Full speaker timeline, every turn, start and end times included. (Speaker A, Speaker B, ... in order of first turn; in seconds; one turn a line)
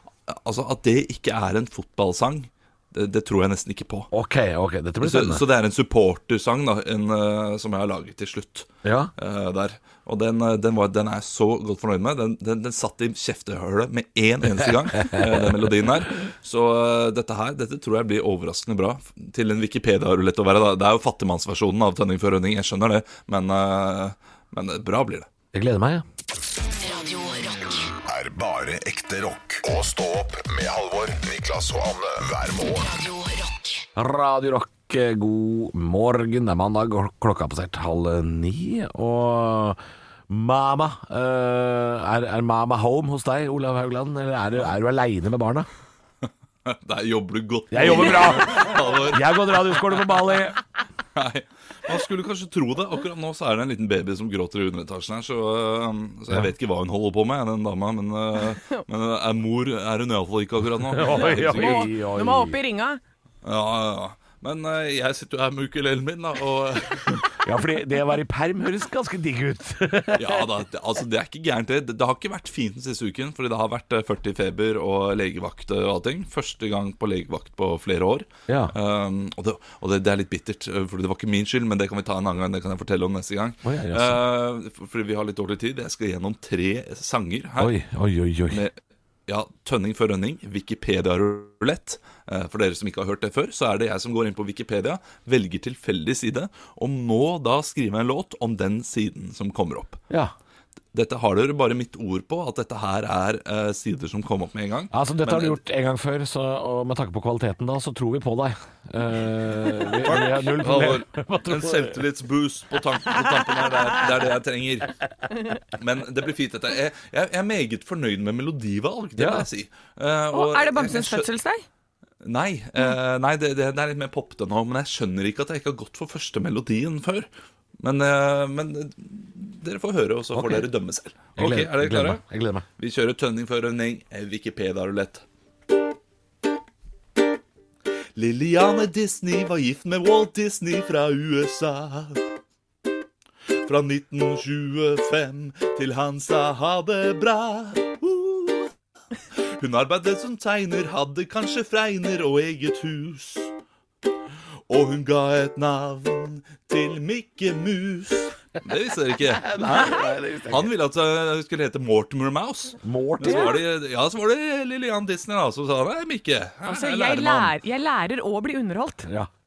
Speaker A: 0.3-4.1
Speaker B: 4.1-5.4
Speaker A: 5.0-25.3
Speaker B: 8.8-9.1
Speaker B: 25.5-26.0
Speaker C: 26.7-27.9
Speaker D: 28.0-32.9
Speaker C: 32.8-33.8
Speaker B: 34.0-45.7
Speaker A: 46.6-50.0
Speaker B: 47.7-50.6
Speaker A: 51.1-61.9
Speaker B: 60.9-62.6
Speaker E: 61.1-63.0
Speaker A: 63.4-67.4
Speaker B: 67.4-70.5
Speaker A: 70.1-87.7
Speaker B: 78.5-78.7
Speaker B: 83.6-84.2
Speaker B: 87.6-88.6
Speaker A: 88.5-88.8
Speaker A: 89.3-100.0
Speaker A: 100.9-105.6
Speaker B: 104.9-112.0
Speaker A: 110.0-114.9
Speaker A: 115.6-121.3
Speaker B: 119.2-119.5
Speaker E: 120.3-121.6
Speaker A: 122.2-127.3
Speaker A: 127.8-132.2
Speaker B: 130.3-130.7
Speaker B: 131.3-132.6
Speaker A: 132.8-135.2
Speaker A: 138.2-142.2
Speaker A: 143.6-148.7
Speaker A: 149.6-153.5
Speaker A: 154.7-167.5
Speaker B: 159.2-160.7
Speaker B: 162.8-163.6
Speaker E: 163.2-163.6
Speaker E: 166.6-169.1